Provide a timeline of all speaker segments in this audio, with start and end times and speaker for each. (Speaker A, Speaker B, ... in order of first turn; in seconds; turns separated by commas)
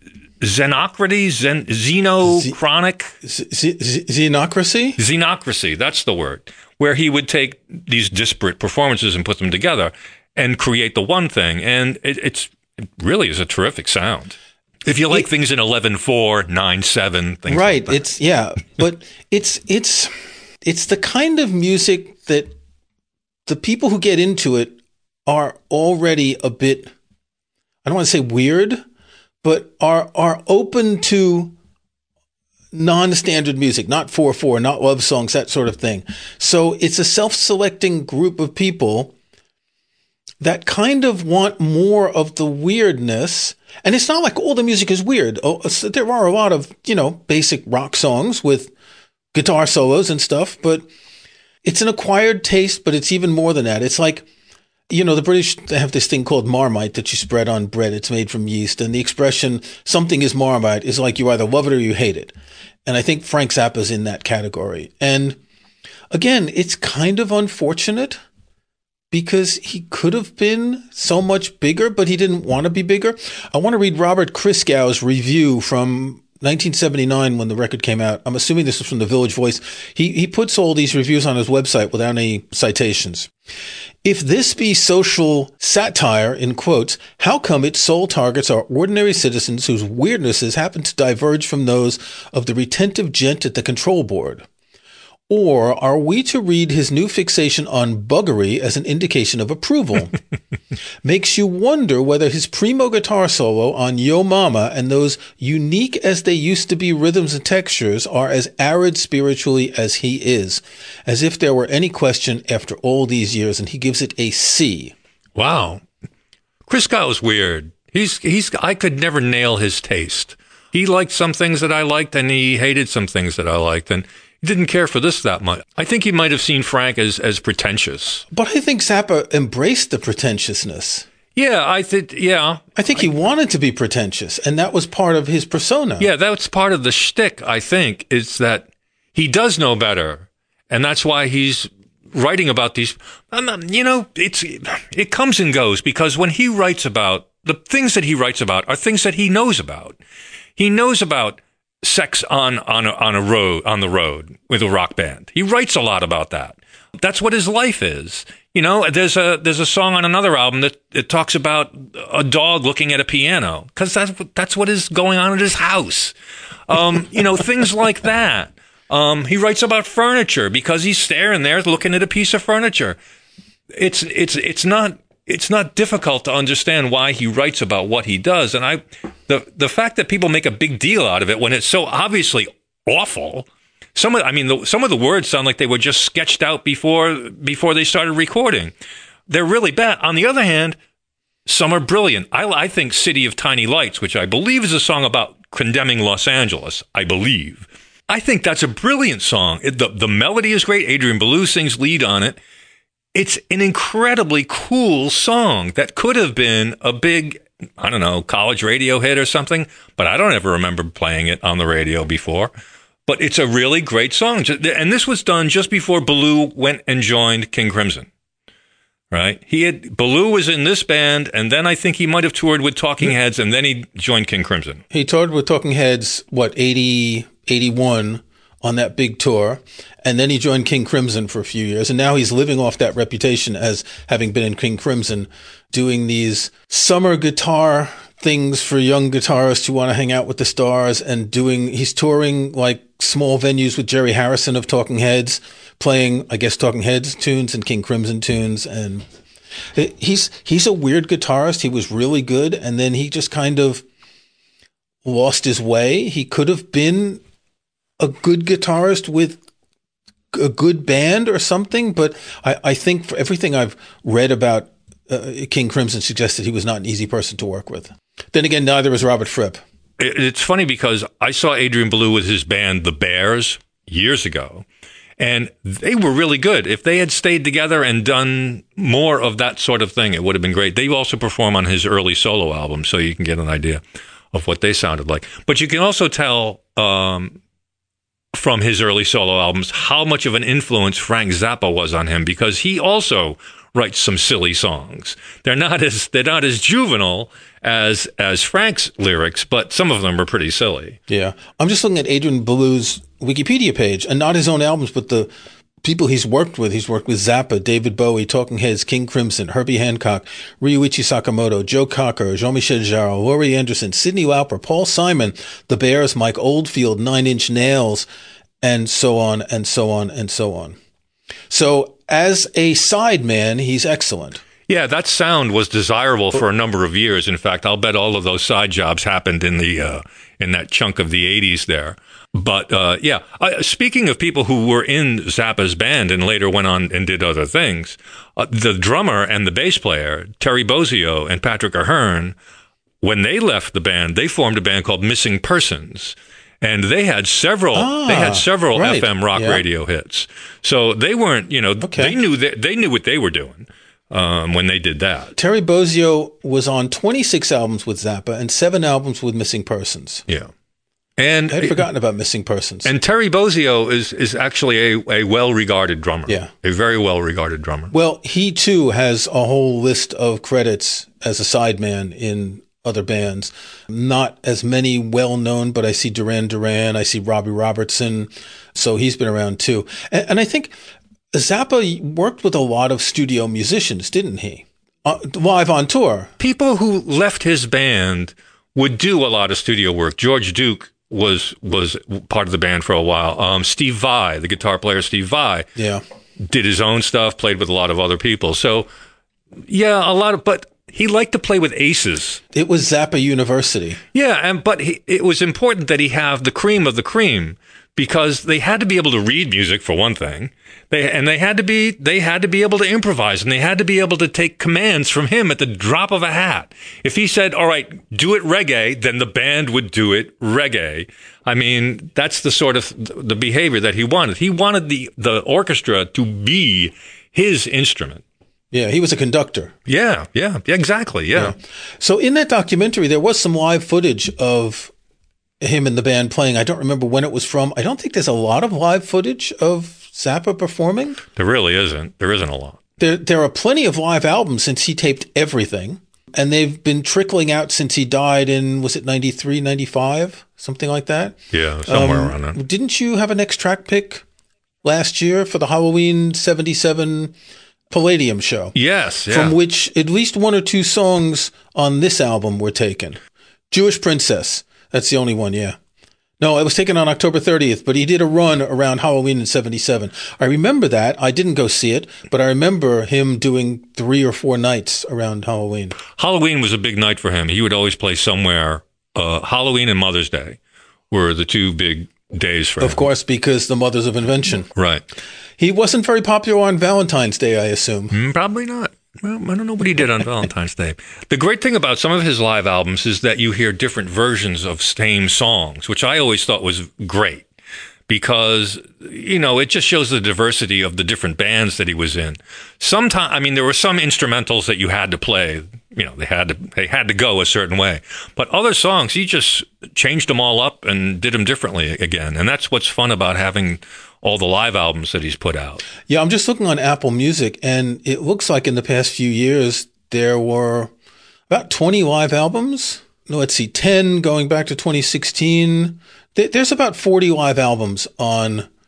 Speaker A: 0.4-3.1, Speaker B: 2.2-2.5, Speaker B: 3.2-5.0, Speaker A: 5.0-18.0, Speaker B: 17.5-20.1, Speaker B: 20.6-22.5, Speaker B: 23.4-26.9, Speaker B: 27.8-28.8, Speaker B: 29.4-31.5, Speaker B: 32.7-39.1, Speaker B: 40.4-48.7, Speaker B: 49.3-50.9, Speaker B: 51.6-54.2, Speaker B: 54.9-62.3, Speaker B: 62.9-65.4, Speaker B: 66.1-68.2, Speaker B: 69.1-83.3, Speaker B: 84.0-94.5, Speaker B: 95.3-100.2, Speaker B: 101.0-114.9, Speaker A: 115.3-115.8, Speaker A: 116.7-128.2, Speaker B: 128.3-131.1, Speaker A: 131.3-132.7, Speaker B: 132.8-136.1, Speaker A: 136.0-150.0, Speaker A: 150.6-166.1, Speaker A: 166.7-173.0, Speaker A: 173.7-188.7, Speaker A: 189.3-190.8, Speaker A: 191.4-202.4, Speaker A: 203.1-212.5, Speaker A: 213.1-218.1, Speaker A: 219.1-224.8, Speaker B: 224.9-249.0, Speaker B: 249.7-253.8, Speaker B: 255.0-257.2, Speaker B: 258.0-259.4, Speaker B: 260.3-269.6, Speaker A: 270.0-274.6, Speaker A: 275.2-283.8, Speaker A: 284.3-287.4, Speaker A: 288.3-301.0, Speaker B: 301.1-305.3, Speaker B: 305.8-318.1, Speaker B: 318.6-320.7, Speaker B: 321.5-324.4, Speaker A: 324.7-342.3, Speaker A: 343.0-355.3, Speaker B: 347.7-349.6, Speaker B: 351.8-352.1, Speaker B: 355.3-360.2, Speaker A: 361.2-361.8, Speaker B: 361.5-362.9, Speaker A: 362.8-367.9, Speaker B: 367.9-380.7, Speaker B: 381.3-386.3, Speaker A: 386.4-395.7, Speaker B: 395.8-396.0, Speaker A: 396.4-398.9, Speaker A: 399.7-402.4, Speaker B: 402.5-404.0, Speaker A: 404.1-428.2, Speaker B: 428.7-429.7, Speaker A: 429.9-431.5, Speaker B: 431.3-434.9, Speaker B: 435.6-441.2, Speaker A: 441.3-442.8, Speaker B: 443.0-454.2, Speaker A: 451.5-452.6, Speaker B: 454.8-457.3, Speaker B: 457.9-458.7, Speaker A: 458.7-459.6, Speaker B: 459.3-463.2, Speaker B: 463.7-465.8, Speaker B: 466.4-476.0, Speaker A: 476.1-480.6, Speaker A: 481.1-483.0, Speaker B: 482.8-484.7, Speaker A: 484.7-485.0, Speaker B: 485.6-488.1, Speaker A: 488.1-497.5, Speaker A: 498.1-515.8, Speaker B: 516.1-520.9, Speaker B: 521.5-528.7